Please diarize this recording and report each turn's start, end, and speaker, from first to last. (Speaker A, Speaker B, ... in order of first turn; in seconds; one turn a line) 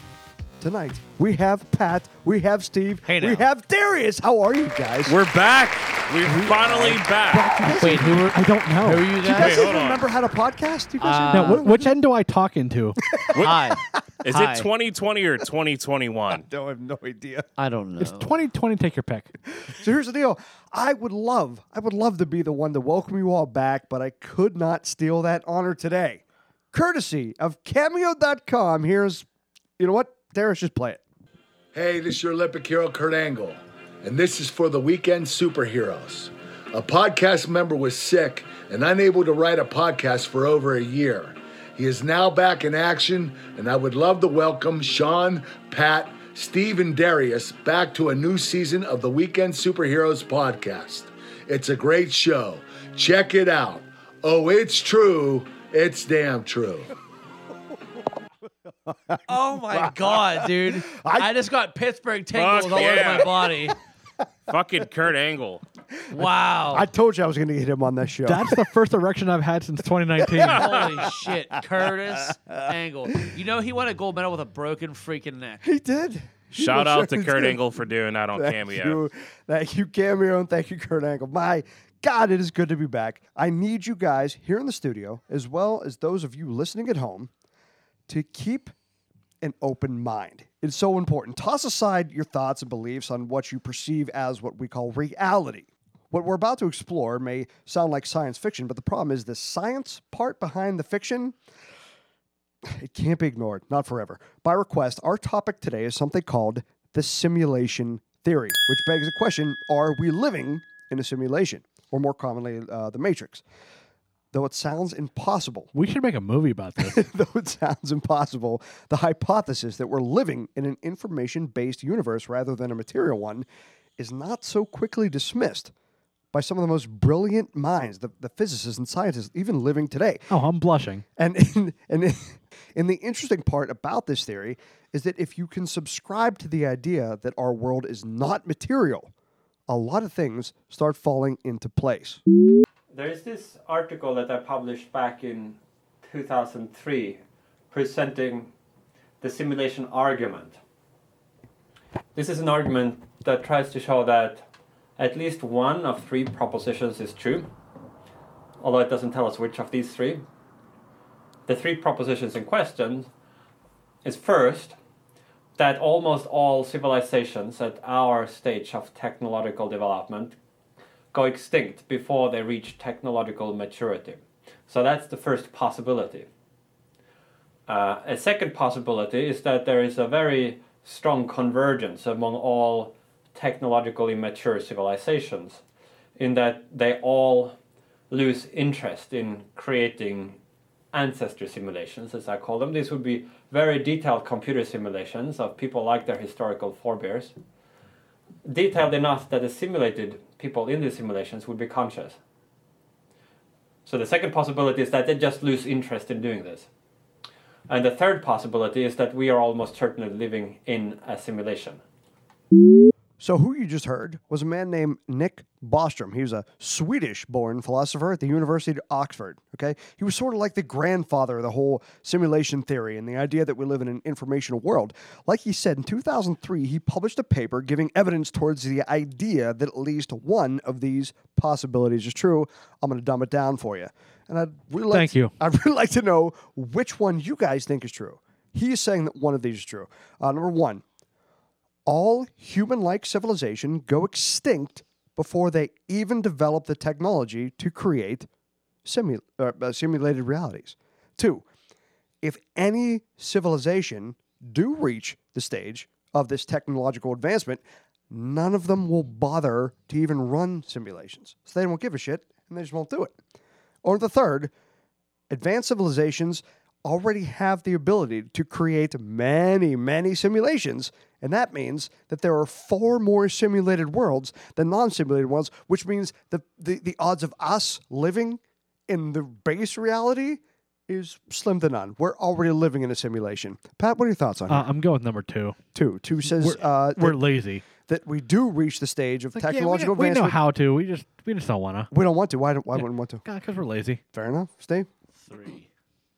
Speaker A: 0.6-5.2
Speaker B: 3.1-3.4
Speaker C: 5.1-7.5
Speaker A: 6.2-8.3
Speaker B: 7.8-9.7
Speaker D: 7.8-9.1
Speaker A: 9.2-11.9
Speaker C: 9.2-10.0
Speaker B: 11.0-11.7
Speaker D: 11.3-13.0
Speaker A: 13.1-13.8
Speaker C: 13.3-13.7
Speaker B: 13.3-14.7
Speaker C: 14.2-16.5
Speaker A: 16.3-17.5
Speaker B: 17.6-18.3
Speaker D: 18.0-19.3
Speaker A: 19.6-29.3
Speaker A: 29.8-31.0
Speaker E: 31.7-56.9
Speaker A: 58.9-61.3
Speaker B: 59.3-63.8
Speaker C: 62.3-63.3
Speaker C: 64.5-65.6
Speaker B: 66.1-66.9
Speaker A: 66.2-68.5
Speaker D: 68.2-70.6
Speaker A: 70.2-70.7
Speaker B: 70.5-75.6
Speaker A: 72.1-72.7
Speaker A: 75.6-77.6
Speaker C: 76.6-79.0
Speaker A: 78.3-87.3
Speaker A: 88.1-88.7
Speaker A: 89.4-101.4
Speaker A: 102.6-113.4
Speaker A: 114.3-115.7
Speaker D: 115.7-117.0
Speaker A: 116.8-123.5
Speaker A: 124.0-125.7
Speaker A: 126.3-130.3
Speaker D: 130.3-131.1
Speaker A: 131.2-139.1
Speaker A: 139.7-142.2
Speaker F: 142.9-148.5
Speaker F: 149.2-150.6
Speaker F: 152.2-154.4
Speaker F: 155.0-157.5
Speaker F: 158.6-160.3
Speaker F: 161.5-163.1
Speaker F: 164.0-164.8
Speaker F: 165.6-170.4
Speaker F: 171.1-176.3
Speaker F: 177.7-185.6
Speaker F: 186.2-187.6
Speaker F: 188.1-190.4
Speaker F: 190.9-197.4
Speaker F: 198.4-202.2
Speaker F: 203.9-206.7
Speaker F: 207.7-211.8
Speaker A: 213.2-240.8
Speaker D: 234.9-235.3
Speaker A: 241.9-248.3
Speaker A: 248.8-251.4
Speaker A: 252.2-263.2
Speaker A: 263.8-264.5
Speaker A: 265.3-284.7
Speaker D: 284.5-285.6
Speaker A: 285.8-287.2
Speaker D: 286.3-287.6
Speaker A: 287.8-290.4
Speaker D: 289.3-291.9
Speaker A: 291.9-293.2
Speaker D: 292.8-294.0
Speaker A: 294.1-294.9
Speaker B: 295.2-295.7